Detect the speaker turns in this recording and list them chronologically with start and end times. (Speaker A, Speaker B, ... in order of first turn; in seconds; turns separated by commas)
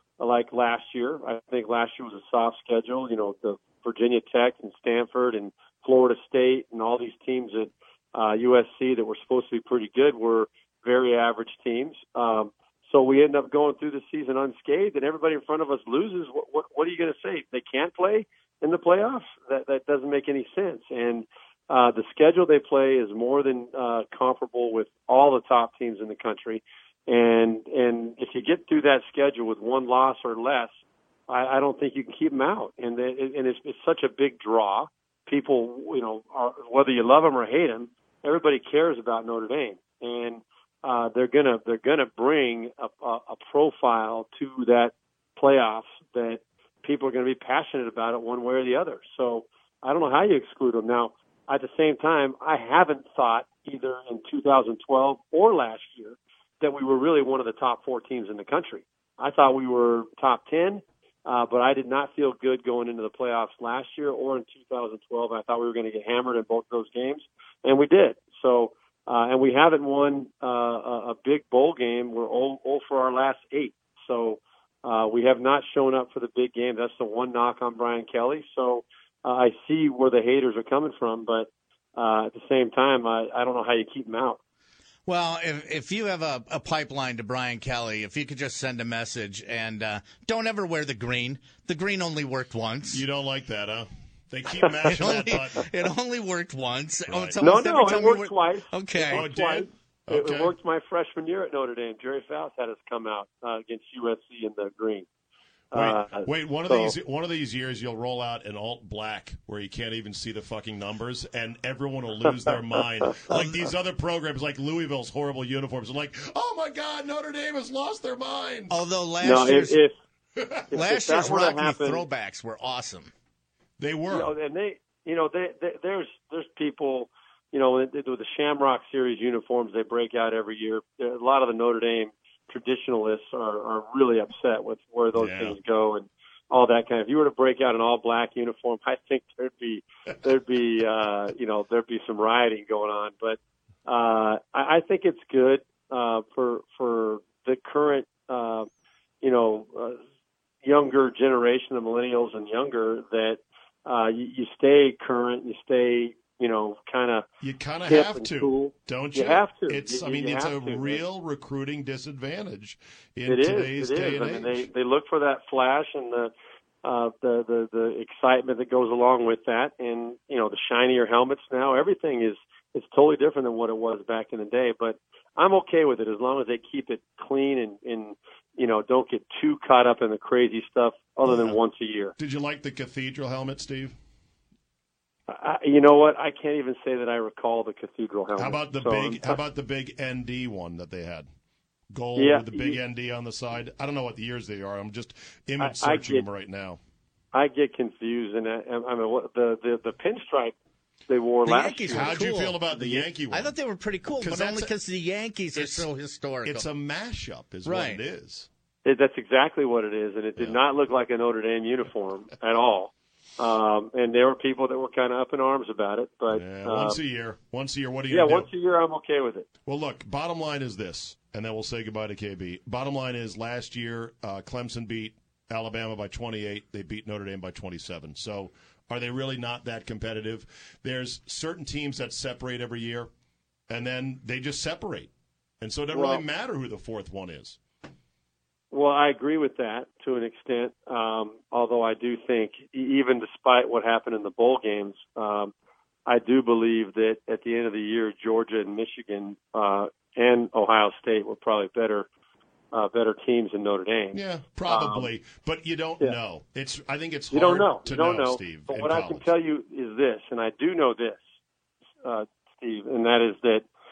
Speaker A: 0.2-30.7, Speaker A: 31.3-84.4, Speaker B: 85.1-93.0, Speaker C: 92.9-95.7, Speaker B: 94.9-99.3, Speaker C: 97.1-97.4, Speaker A: 97.4-105.1, Speaker C: 99.1-100.5, Speaker A: 105.7-106.9, Speaker C: 105.7-118.8, Speaker B: 113.3-113.6, Speaker B: 118.7-119.8, Speaker A: 119.2-119.9, Speaker C: 120.4-120.7, Speaker A: 120.7-122.0, Speaker B: 120.7-123.1, Speaker C: 123.8-124.3, Speaker A: 124.1-148.7, Speaker C: 135.2-135.6, Speaker A: 149.2-150.0, Speaker A: 150.6-157.3, Speaker C: 157.4-164.7, Speaker A: 157.9-161.0, Speaker A: 163.3-166.3, Speaker A: 166.8-182.1, Speaker C: 181.2-181.6, Speaker C: 182.2-183.9, Speaker A: 185.3-189.4, Speaker C: 188.4-191.3, Speaker C: 191.9-196.8, Speaker A: 192.2-192.8, Speaker A: 195.6-196.3, Speaker A: 197.3-200.6, Speaker A: 201.1-202.2, Speaker B: 201.5-206.7, Speaker C: 201.9-203.6, Speaker C: 204.2-204.7, Speaker C: 205.6-205.9, Speaker C: 206.4-208.5, Speaker B: 207.7-208.0, Speaker A: 208.8-217.0, Speaker C: 216.3-218.5, Speaker A: 218.1-219.5, Speaker C: 219.7-233.1, Speaker C: 233.7-237.6, Speaker A: 235.9-236.2, Speaker A: 238.7-245.5, Speaker A: 246.1-252.1, Speaker A: 252.7-255.1, Speaker C: 254.1-259.3, Speaker A: 257.3-261.3, Speaker A: 262.0-263.7